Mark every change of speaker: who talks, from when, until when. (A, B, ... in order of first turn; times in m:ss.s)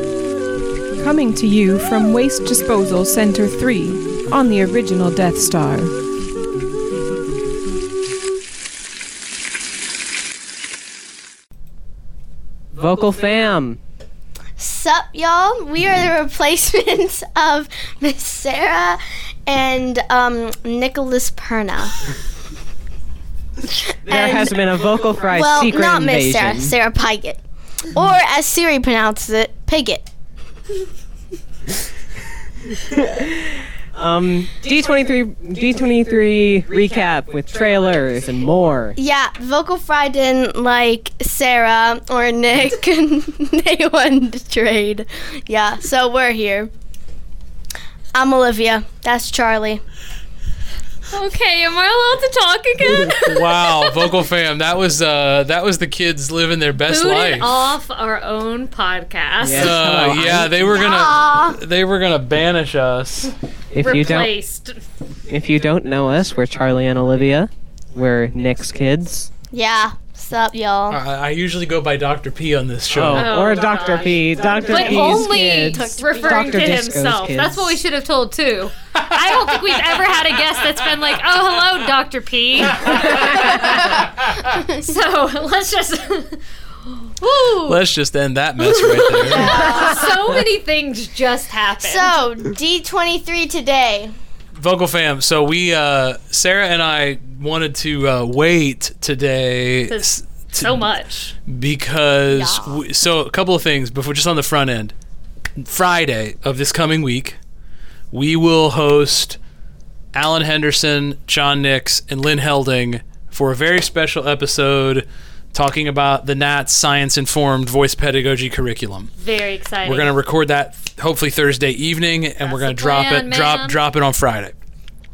0:01.0-0:05.9 A
0:12.7-0:13.8 B
0:14.6-0:21.9 C
0:24.0-0:26.8 B
0:24.1-0:24.6 C
0:25.3-0:27.4 C
0:27.9-0:30.1 C
0:33.9-0:39.0 B
0:39.0-0:46.7 C
0:48.1-0:49.8 C
0:51.1-0:54.0 D
0:53.0-0:57.7 E
0:56.9-0:59.8 D
0:59.4-1:00.8 B
0:59.5-1:03.3 E
1:00.7-1:01.6 C
1:03.7-1:04.3 B
1:03.8-1:04.8 D
1:05.3-1:09.3 B
1:09.5-1:11.0 C
1:10.9-1:13.4 E
1:12.9-1:17.8 B
1:13.2-1:23.5 D
1:14.6-1:16.7 C
1:23.1-1:23.8 C
1:24.8-1:26.4 D
1:27.2-1:27.8 D
1:27.6-1:29.9 E
1:28.6-1:32.2 D
1:29.2-1:30.4 C
1:31.8-1:34.1 C
1:34.6-1:40.9 E
1:39.9-1:41.3 D
1:41.5-1:44.9 E
1:42.3-1:42.8 C
1:45.6-1:47.4 E
1:48.1-1:49.4 E
1:50.1-1:59.1 E
1:59.2-2:00.1 D
1:59.8-2:04.5 E
2:02.4-2:03.8 D